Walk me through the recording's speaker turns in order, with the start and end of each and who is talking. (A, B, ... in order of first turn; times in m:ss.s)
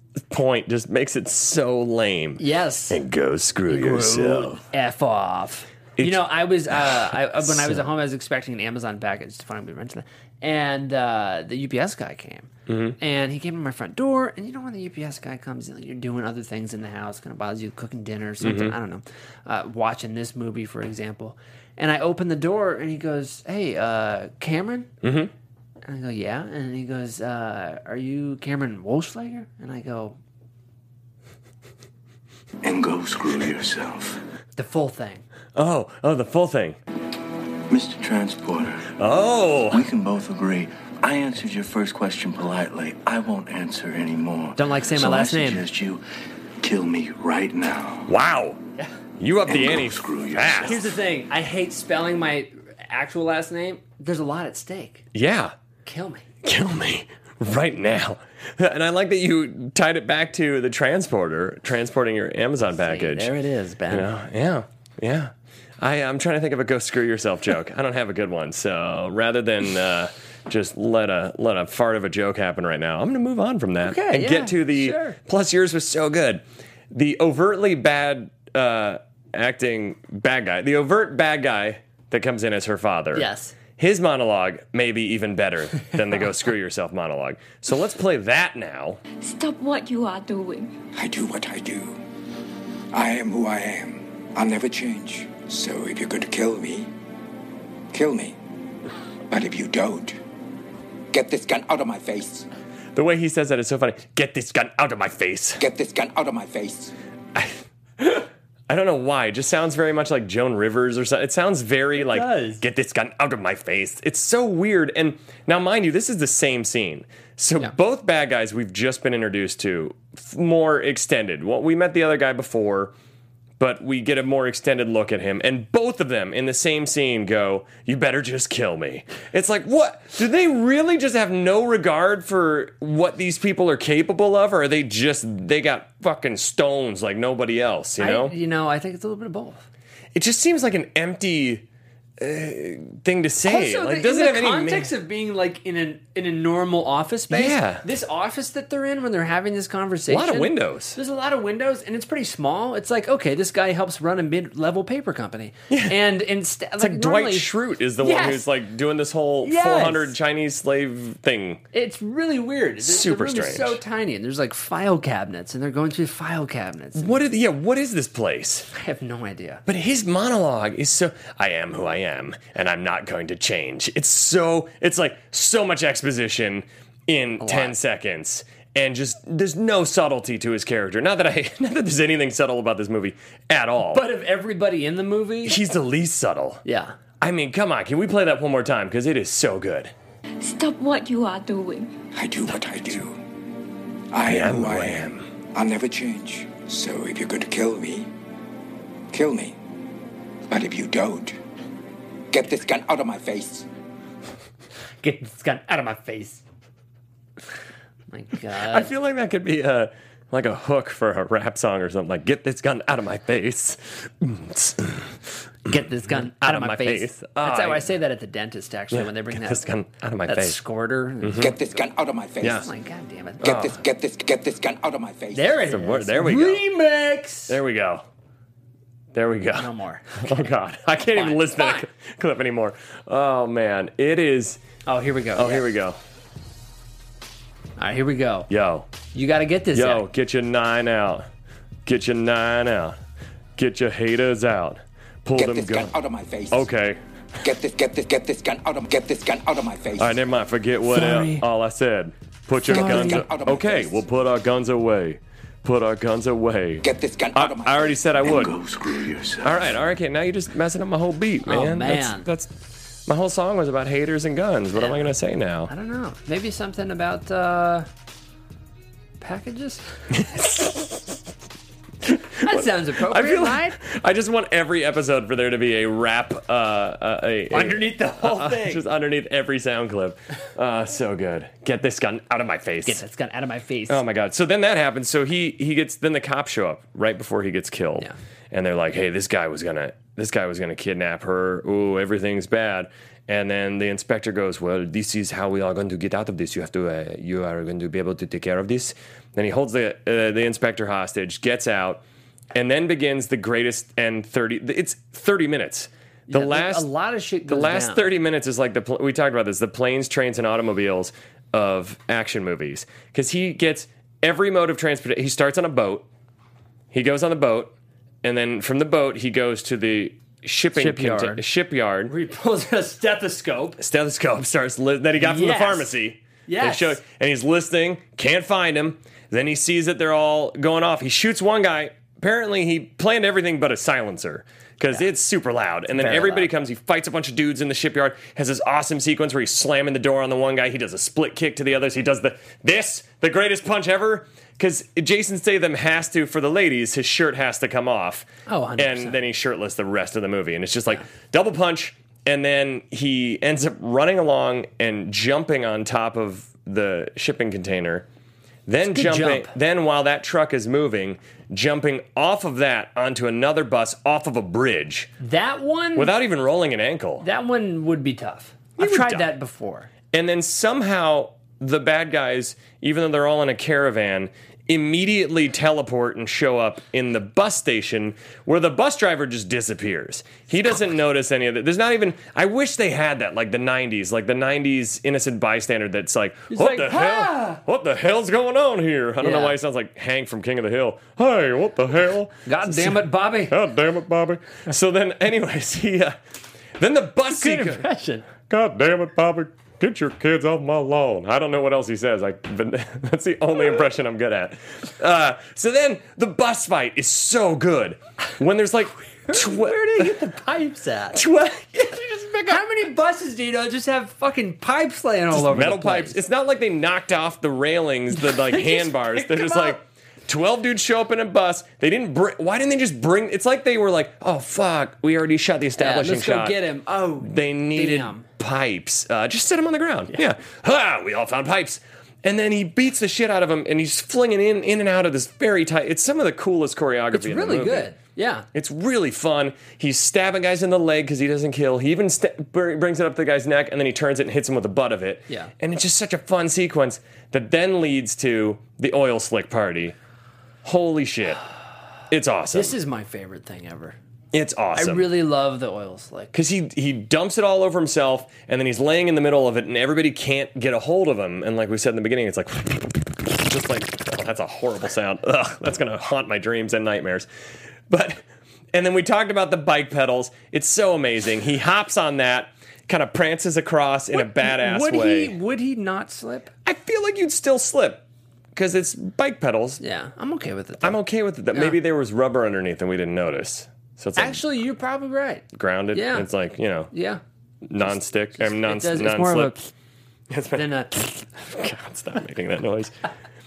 0:00.3-0:04.6 A
0:02.4-0:03.0 B
0:03.7-0:24.9 B
0:06.0-0:07.9 A
0:12.7-0:13.0 A
0:18.4-0:18.8 A
0:25.0-0:25.3 A
0:25.8-0:30.2 B
0:32.6-0:34.2 C
0:34.6-0:35.2 B
0:35.6-0:36.8 A
0:37.7-0:38.9 C
0:39.0-0:39.9 A
0:39.7-0:46.0 C
0:44.6-0:45.6 B
0:46.6-0:48.1 C
0:48.1-0:48.6 A
0:49.2-0:50.8 A
0:49.5-0:50.8 C
0:50.6-0:55.0 B
0:55.1-0:55.6 A
0:55.8-0:56.3 B
0:56.4-1:03.3 A
1:02.7-1:04.1 B
1:03.9-1:29.0 A
1:13.8-1:15.2 B
1:23.2-1:23.6 B
1:29.2-1:30.8 D
1:30.9-1:32.0 E
1:32.9-1:36.9 E
1:37.9-1:38.4 E
1:39.3-1:40.2 E
1:41.1-1:42.5 E
1:43.0-1:45.6 A
1:45.6-1:46.9 E
1:47.3-2:02.9 A
1:52.0-1:52.6 B
2:03.6-2:18.4 A
2:18.0-2:19.7 B
2:20.1-2:21.6 A
2:22.2-2:24.9 A
2:23.4-2:38.5 B
2:27.3-2:27.9 A
2:30.1-2:31.0 A
2:35.7-2:36.0 A
2:36.8-2:41.6 A
2:39.4-2:40.2 B
2:41.7-2:47.2 B
2:42.8-2:43.8 A
2:47.0-2:48.7 A
2:48.7-2:49.6 B
2:49.7-3:04.1 A
2:57.4-2:57.8 B
3:03.9-3:05.6 B
3:05.4-3:06.6 A
3:06.6-3:07.0 B
3:07.2-3:09.9 A
3:10.4-3:12.0 D
3:12.1-3:13.2 E
3:12.5-3:13.1 A
3:14.1-3:18.1 E
3:14.2-3:15.3 A
3:19.1-3:19.6 E
3:20.5-3:21.4 E
3:22.3-3:23.7 E
3:25.0-3:26.4 B
3:28.1-3:28.9 B
3:28.5-3:35.2 A
3:35.7-3:39.7 B
3:35.7-3:37.9 A
3:38.9-3:40.6 A
3:40.3-3:41.5 B
3:41.2-3:41.5 A
3:41.3-3:42.7 E
3:42.4-3:42.7 A
3:42.4-3:43.4 B
3:43.4-3:45.8 E
3:43.4-3:43.8 A
3:45.3-3:47.6 B
3:45.6-3:46.6 A
3:47.5-3:48.1 A
3:49.1-3:54.6 A
3:49.6-3:50.5 B
3:51.1-3:51.9 B
3:54.9-3:55.7 B
3:55.3-3:56.0 A
3:57.8-3:58.5 B
3:58.5-3:58.9 A
3:59.1-4:00.0 B
3:59.7-4:01.3 A
4:01.8-4:03.0 A
4:03.6-4:05.9 A
4:05.4-4:06.7 E
4:06.5-4:07.0 A
4:07.4-4:10.2 E
4:10.0-4:18.6 A
4:10.9-4:11.4 B
4:12.6-4:14.0 E
4:12.7-4:13.2 B
4:16.8-4:18.0 E
4:18.2-4:19.7 C
4:19.4-4:22.5 A
4:21.4-4:22.3 B
4:23.1-4:25.7 A
4:24.8-4:25.0 B
4:25.7-4:27.9 B
4:29.2-4:29.8 B
4:30.1-4:31.2 A
4:32.0-4:43.0 A
4:32.4-4:33.8 B
4:37.5-4:38.8 B
4:42.8-4:44.0 B
4:43.9-5:06.9 A
5:06.3-5:08.0 B
5:07.5-5:16.1 A
5:16.9-5:22.1 A
5:20.8-5:21.4 B
5:22.1-5:23.8 B
5:23.8-5:58.1 A
5:25.2-5:27.0 B
5:35.9-5:36.5 B
5:48.5-5:49.2 B
5:58.7-6:05.1 A
5:58.8-5:59.5 B
6:05.2-6:06.1 B
6:06.0-6:07.3 A
6:07.2-6:09.9 B
6:08.8-6:09.3 A
6:10.1-6:36.2 A
6:26.5-6:27.6 B
6:29.2-6:29.6 B
6:32.5-6:33.6 B
6:36.8-6:37.9 A
6:37.3-6:38.3 B
6:38.5-6:50.2 A
6:49.3-6:51.2 B
6:51.1-6:52.6 A
6:52.5-6:56.2 B
6:55.3-7:06.7 A
6:58.2-6:59.8 B
7:05.8-7:08.3 B
7:07.2-7:17.9 A
7:17.1-7:18.5 B
7:18.5-7:30.0 A
7:30.6-7:31.4 A
7:32.1-7:32.8 A
7:32.5-7:34.0 B
7:34.3-7:35.2 A
7:34.8-7:36.4 B
7:36.3-7:47.3 A
7:47.9-7:55.4 A
7:54.1-7:56.5 B
7:56.6-7:58.0 A
7:58.5-7:59.8 A
7:59.8-8:01.0 B
8:00.8-8:04.4 A
8:04.2-8:06.3 B
8:05.5-8:06.9 A
8:06.9-8:07.2 B
8:07.6-8:09.6 A
8:08.4-8:09.7 B
8:10.3-8:12.9 A
8:10.5-8:10.9 B